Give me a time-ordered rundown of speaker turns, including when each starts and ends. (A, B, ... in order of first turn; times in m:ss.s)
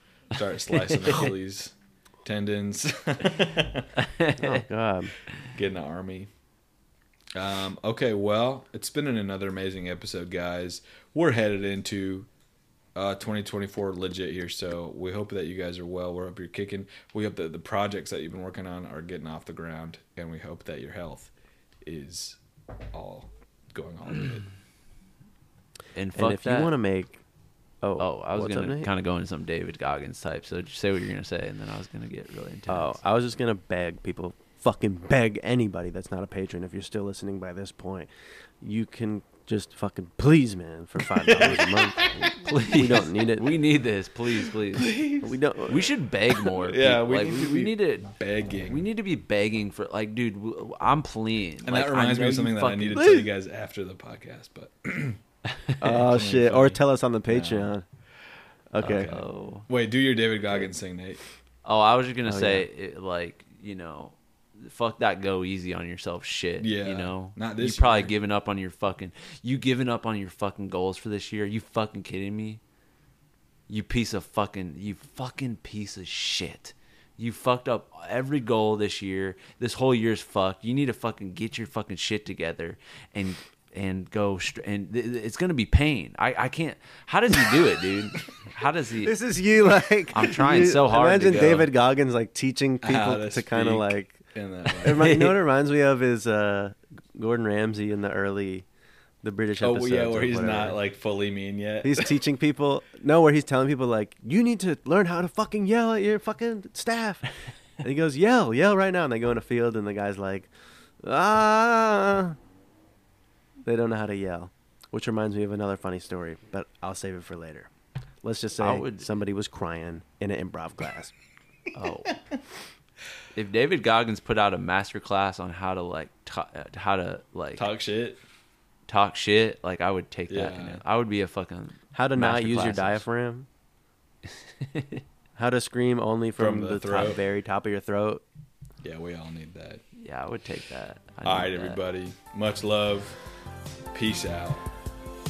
0:00.3-0:01.7 A
0:02.2-0:03.9 A
0:04.0-0:04.6 B
0:04.4-0:05.1 C
0:05.5-0:06.3 A
0:07.4-0:12.3 A
0:13.0-0:21.3 A
0:21.8-0:22.4 A
0:22.9-0:24.5 A
0:26.0-0:26.7 B
0:26.2-0:27.2 C
0:27.8-0:28.9 C
0:28.0-0:33.0 B
0:32.7-0:38.1 C
0:38.6-0:43.4 C
0:41.2-0:42.5 A
0:42.4-0:45.0 B
0:44.7-0:45.3 A
0:45.2-0:45.9 C
0:45.7-0:48.1 B
0:46.4-0:48.8 A
0:48.7-0:53.2 B
0:51.6-0:55.2 A
0:52.9-0:53.3 C
0:55.8-0:57.8 C
0:55.8-0:57.8 A
0:58.7-0:59.1 C
0:58.8-0:59.7 B
0:58.8-1:01.2 A
1:01.6-1:12.6 B
1:02.3-1:02.7 C
1:06.6-1:08.1 A
1:13.7-1:29.2 B
1:29.0-1:34.2 C
1:30.1-1:31.7 B
1:32.8-1:35.1 A
1:34.8-1:38.7 C
1:35.0-1:35.4 B
1:39.2-1:40.8 C
1:39.6-1:42.2 A
1:41.8-1:47.3 C
1:47.8-1:50.5 C
1:51.0-1:52.4 C
1:53.6-1:57.7 C
1:58.2-2:01.1 C
1:58.6-1:59.1 B
2:01.8-2:02.2 B
2:03.4-2:07.7 B
2:07.6-2:08.2 A
2:08.9-2:13.0 B
2:10.3-2:10.8 A
2:11.9-2:13.5 C
2:14.6-2:15.0 B
2:15.4-2:18.2 C
2:16.4-2:17.2 A
2:18.8-2:19.8 A
2:20.0-2:21.8 B
2:21.2-2:23.2 A
2:23.9-2:24.6 A